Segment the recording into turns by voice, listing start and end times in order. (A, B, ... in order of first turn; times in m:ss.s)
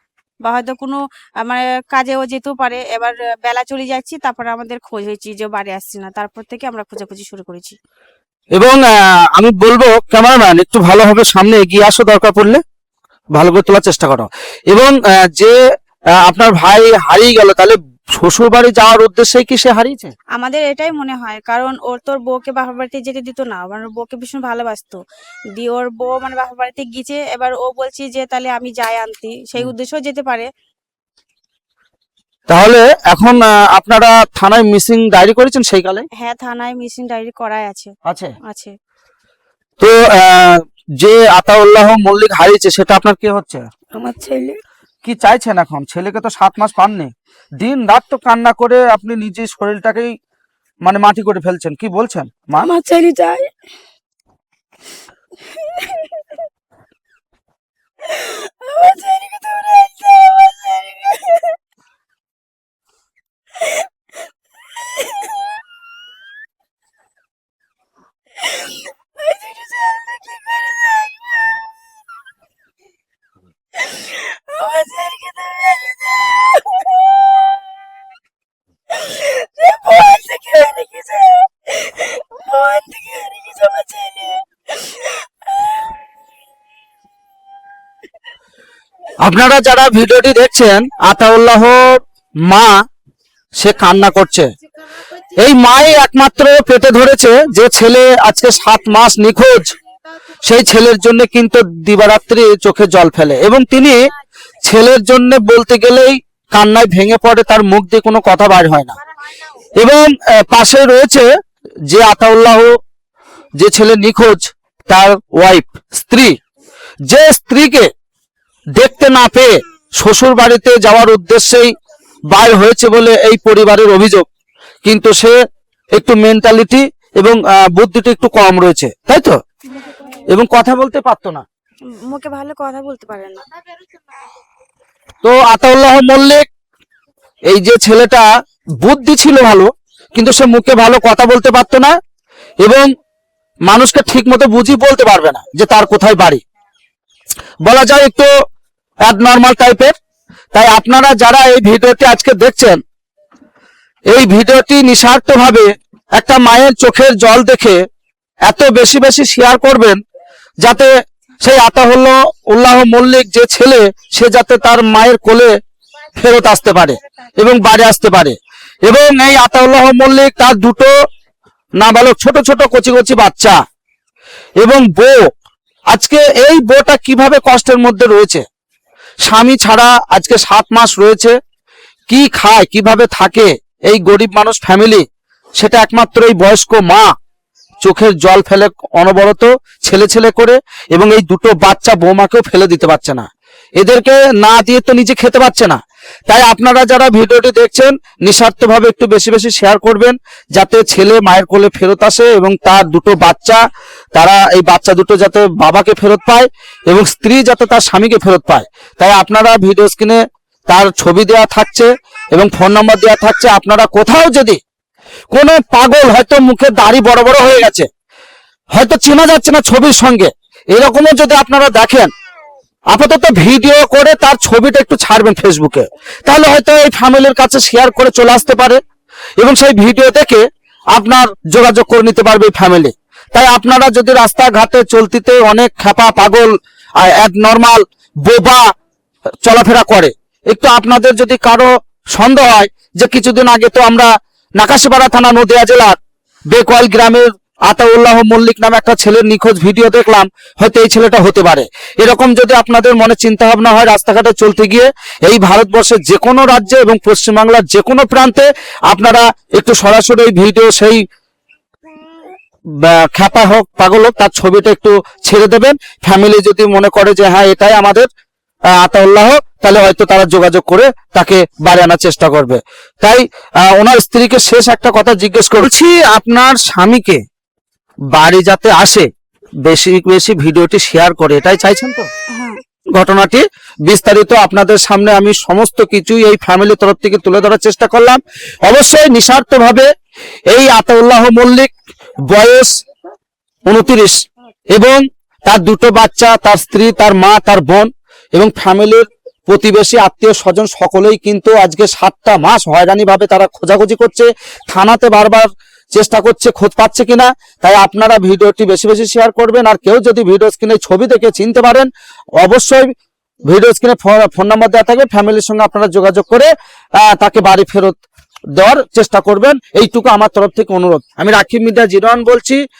0:00.4-0:07.8 A
0:08.6-0:12.6 B
0:13.3-0:15.6 B
0:16.2-0:20.1 B
0:20.4-0:25.0 A
0:25.6-0:30.5 A
0:32.5-0:36.1 B
0:36.2-0:37.9 A
0:38.1-0:38.4 B
0:38.5-0:38.7 A
0:39.8-0:43.7 B
0:44.0-0:44.6 A
0:45.0-0:50.2 B
0:50.8-0:52.7 B
0:52.6-0:53.5 A
0:55.8-0:56.1 A
0:58.1-1:01.6 A
1:05.0-1:05.5 A
1:08.4-1:11.7 A
1:13.8-1:17.7 A
1:18.9-1:25.9 A
1:29.2-1:32.8 B
1:33.6-1:34.5 B
1:35.4-1:39.7 B
1:40.4-1:44.1 B
1:44.6-1:48.9 B
1:49.8-1:51.3 B
1:51.9-1:52.8 B
1:53.6-1:56.4 B
1:57.1-1:57.9 B
1:58.8-2:01.7 B
2:02.3-2:04.3 B
2:04.8-2:05.4 B
2:05.9-2:09.4 B
2:10.3-2:11.4 B
2:11.9-2:13.5 A
2:15.2-2:16.5 B
2:17.5-2:18.3 B
2:18.8-2:22.0 B
2:22.6-2:22.9 B
2:23.7-2:26.4 B
2:27.6-2:28.4 B
2:29.0-2:29.9 B
2:30.5-2:32.8 B
2:34.1-2:37.8 B
2:38.5-2:40.0 B
2:40.6-2:40.9 B
2:41.4-2:45.5 B
2:46.2-2:51.0 B
2:51.8-2:53.6 B
2:54.6-2:55.3 B
2:55.9-2:58.4 B
2:59.2-3:01.4 B
3:02.1-3:05.0 B
3:05.6-3:07.1 B
3:07.8-3:23.6 B
3:24.2-3:34.6 B
3:35.3-3:37.9 B
3:38.7-3:42.1 B
3:42.9-3:48.8 B
3:49.4-3:58.7 B
3:59.4-4:06.0 B
4:06.5-4:21.0 B
4:22.7-4:28.1 B
4:28.7-4:37.2 B
4:38.1-4:39.1 B
4:39.6-4:42.1 B
4:42.3-4:42.6 A
4:43.0-4:49.9 B
4:50.5-4:51.7 B
4:52.3-4:52.8 B
4:53.7-4:54.2 B
4:54.7-5:11.9 B
5:12.4-5:12.9 B
5:13.5-5:18.0 B
5:18.6-5:22.6 B